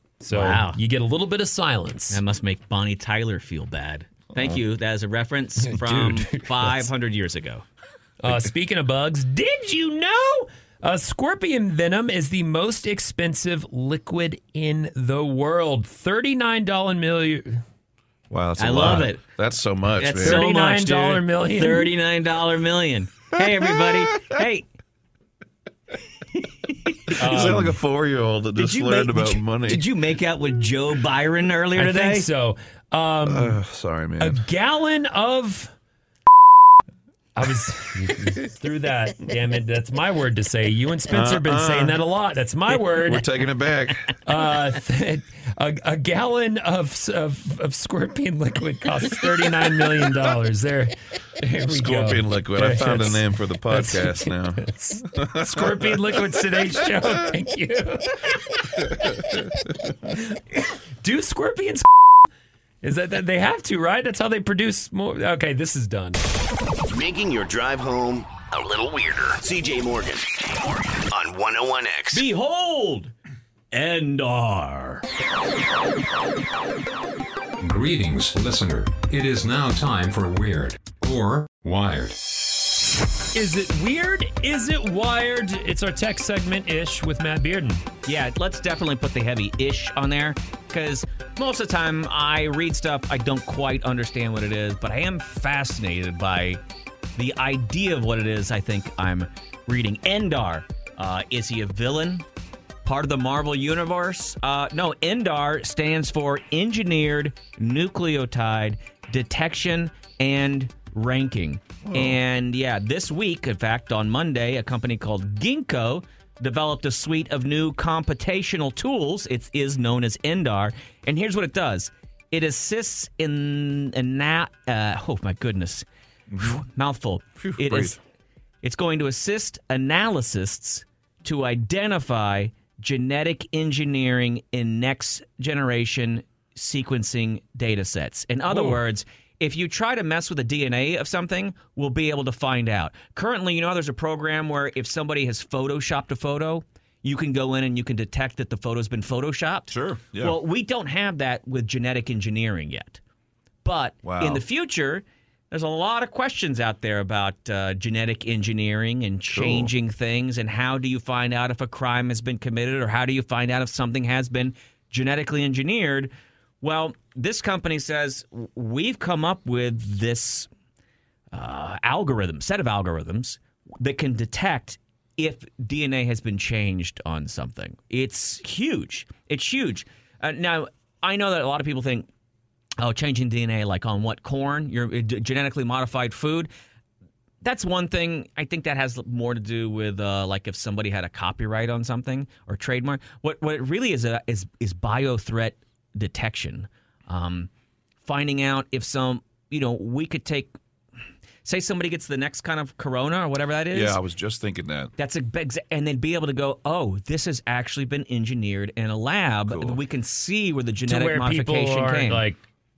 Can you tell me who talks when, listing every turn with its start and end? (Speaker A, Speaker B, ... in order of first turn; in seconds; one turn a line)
Speaker A: 0.2-2.2
Speaker B: 0.3-0.8
Speaker B: 2.1-7.6
Speaker A: 5.7-6.9
Speaker A: 8.2-17.6
Speaker C: 18.3-20.4
Speaker B: 18.6-19.2
Speaker B: 20.0-24.6
Speaker A: 20.2-21.9
Speaker C: 23.4-24.3
Speaker B: 26.7-27.6
Speaker A: 27.2-27.7
Speaker C: 27.2-29.8
Speaker B: 28.6-32.3
Speaker A: 31.7-33.5
Speaker C: 33.3-34.4
Speaker A: 34.2-35.7
Speaker A: 37.4-43.2
Speaker C: 41.1-42.0
Speaker C: 42.7-44.1
Speaker A: 44.2-59.5
Speaker C: 51.5-56.1
Speaker A: 60.1-60.3
Speaker A: 61.0-61.9
Speaker A: 62.8-66.2
Speaker D: 66.9-72.2
Speaker B: 72.1-73.1
Speaker B: 73.7-75.0
Speaker E: 77.6-82.2
Speaker A: 83.3-87.8
Speaker B: 88.0-96.6
Speaker B: 97.2-102.2
Speaker B: 102.8-125.8
Speaker C: 111.8-112.2
Speaker C: 126.3-126.6
Speaker B: 126.4-128.0
Speaker C: 127.4-128.0
Speaker B: 128.6-153.0
Speaker A: 138.5-138.8
Speaker C: 149.7-150.4
Speaker B: 153.6-166.1
Speaker C: 154.0-154.4
Speaker C: 159.3-159.7
Speaker B: 166.6-170.5
Speaker B: 171.3-182.1
Speaker B: 182.8-186.5
Speaker B: 187.4-197.5
Speaker B: 198.0-200.5
Speaker B: 201.4-204.0
Speaker C: 203.7-204.9
Speaker B: 205.0-212.2
Speaker C: 209.5-209.8
Speaker A: 210.9-212.4